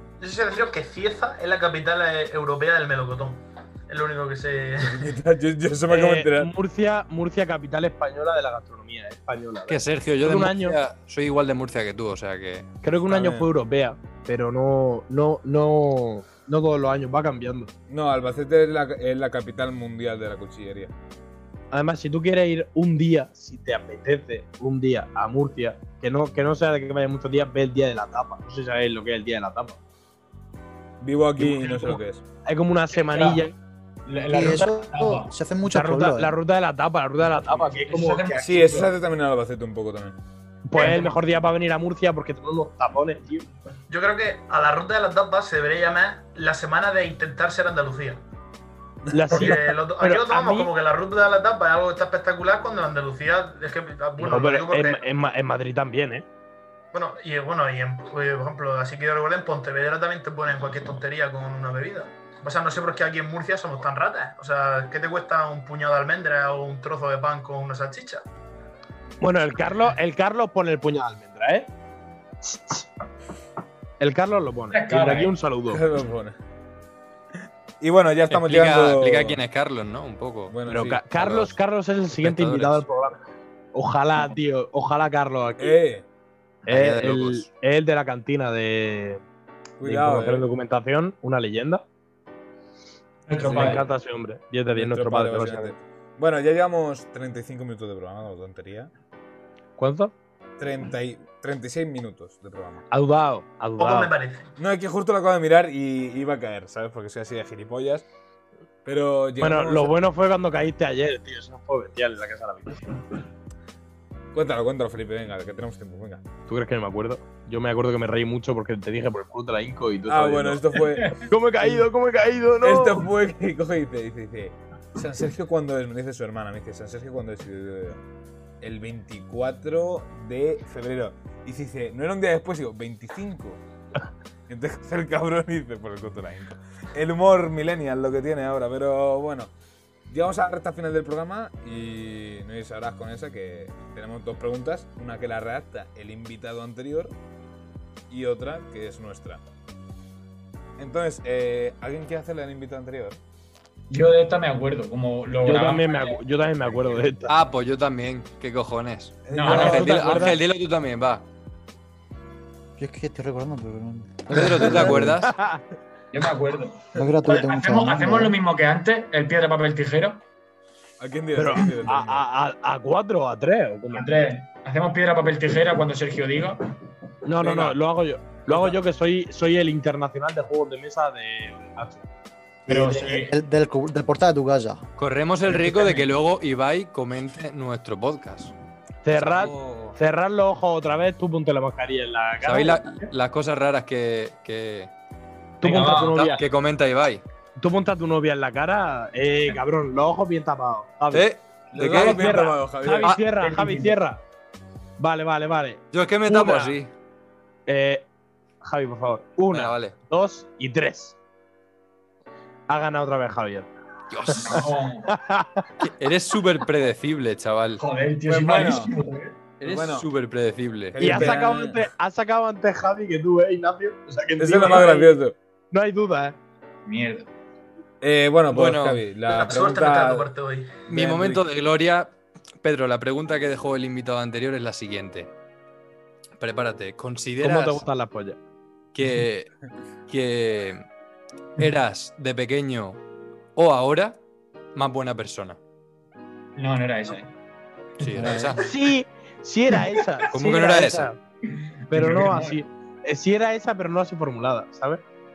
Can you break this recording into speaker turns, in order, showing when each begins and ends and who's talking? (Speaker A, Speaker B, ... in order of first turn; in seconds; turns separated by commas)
Speaker A: 0.2-5.1, Speaker B: 4.8-6.5, Speaker C: 5.9-10.8, Speaker D: 9.7-12.7, Speaker C: 12.8-17.7, Speaker B: 13.0-13.5, Speaker B: 17.9-20.9, Speaker C: 21.7-29.8, Speaker B: 31.0-32.2, Speaker C: 31.4-33.5, Speaker E: 33.0-33.5, Speaker E: 34.0-35.3, Speaker F: 34.3-36.4, Speaker C: 35.7-38.9, Speaker E: 37.5-38.9, Speaker B: 38.4-40.2, Speaker C: 40.7-43.5, Speaker E: 40.8-41.1, Speaker A: 43.9-48.2, Speaker B: 49.1-49.4, Speaker C: 49.1-50.7, Speaker A: 49.3-55.0, Speaker C: 54.2-56.2, Speaker A: 56.9-68.2, Speaker C: 69.2-71.7, Speaker C: 72.4-72.9, Speaker C: 74.0-75.8, Speaker E: 74.7-75.3, Speaker B: 75.7-76.4, Speaker B: 77.8-79.4, Speaker D: 78.3-80.5, Speaker B: 80.5-81.5, Speaker C: 80.7-83.2, Speaker D: 82.1-82.8, Speaker C: 83.7-85.8, Speaker B: 85.6-86.0, Speaker D: 86.7-87.5, Speaker C: 86.7-89.2, Speaker B: 89.8-90.5, Speaker C: 89.8-91.8, Speaker E: 93.3-93.9, Speaker C: 93.4-95.8, Speaker B: 93.5-93.8, Speaker B: 94.7-98.9, Speaker C: 99.8-100.1, Speaker B: 100.6-102.8, Speaker C: 102.9-104.1, Speaker A: 103.8-104.5, Speaker B: 104.6-108.0, Speaker B: 108.8-109.9, Speaker C: 109.4-113.0, Speaker B: 114.3-116.2, Speaker C: 116.5-123.1, Speaker B: 120.1-121.8, Speaker B: 122.6-128.0, Speaker B: 128.6-133.6, Speaker B: 134.5-139.5, Speaker B: 140.1-147.2, Speaker B: 148.1-149.4, Speaker B: 150.8-153.2, Speaker E: 153.9-156.2, Speaker C: 155.4-157.3, Speaker B: 156.6-157.0, Speaker D: 157.3-161.2, Speaker B: 159.2-160.3, Speaker E: 159.3-160.0, Speaker C: 159.4-160.4, Speaker F: 162.8-165.2, Speaker D: 164.3-165.3, Speaker C: 165.0-165.6, Speaker E: 166.1-170.2, Speaker F: 166.9-168.3, Speaker B: 171.0-172.2, Speaker C: 171.3-174.3, Speaker E: 173.9-176.7, Speaker C: 177.2-182.1, Speaker E: 177.4-177.7, Speaker E: 182.7-183.3, Speaker F: 182.7-184.8, Speaker D: 185.0-188.5, Speaker C: 189.0-193.1, Speaker D: 189.2-189.5, Speaker B: 189.2-189.9, Speaker D: 192.4-194.9, Speaker C: 195.6-196.4, Speaker E: 195.6-196.3, Speaker D: 196.1-197.2, Speaker C: 197.6-201.3, Speaker D: 201.1-202.2, Speaker B: 201.7-203.2, Speaker C: 201.9-204.2, Speaker E: 202.9-204.0, Speaker C: 205.0-206.8, Speaker D: 205.9-206.9, Speaker C: 207.7-208.1, Speaker C: 208.6-211.2, Speaker D: 209.5-209.9, Speaker C: 212.7-213.7, Speaker D: 214.1-214.7, Speaker C: 214.2-215.8, Speaker E: 214.3-215.1, Speaker D: 215.8-217.8, Speaker E: 217.8-219.4, Speaker B: 218.2-218.9, Speaker D: 219.6-221.4, Speaker B: 219.6-220.1, Speaker B: 220.9-221.9, Speaker C: 221.0-225.2, Speaker B: 224.4-225.3, Speaker C: 225.7-226.4, Speaker E: 226.8-227.3, Speaker B: 228.0-230.3, Speaker D: 228.5-229.0, Speaker A: 229.2-230.8, Speaker D: 230.8-235.3, Speaker B: 230.9-231.4, Speaker D: 236.4-237.8, Speaker C: 237.4-238.4, Speaker D: 238.9-239.5, Speaker D: 240.1-240.8, Speaker D: 241.6-243.0, Speaker D: 243.6-244.2, Speaker D: 244.7-245.6, Speaker E: 246.6-247.3, Speaker E: 248.0-248.6, Speaker D: 248.0-248.6, Speaker B: 248.2-248.5, Speaker C: 248.6-251.2, Speaker D: 250.2-251.1, Speaker E: 251.5-252.6, Speaker C: 251.9-255.0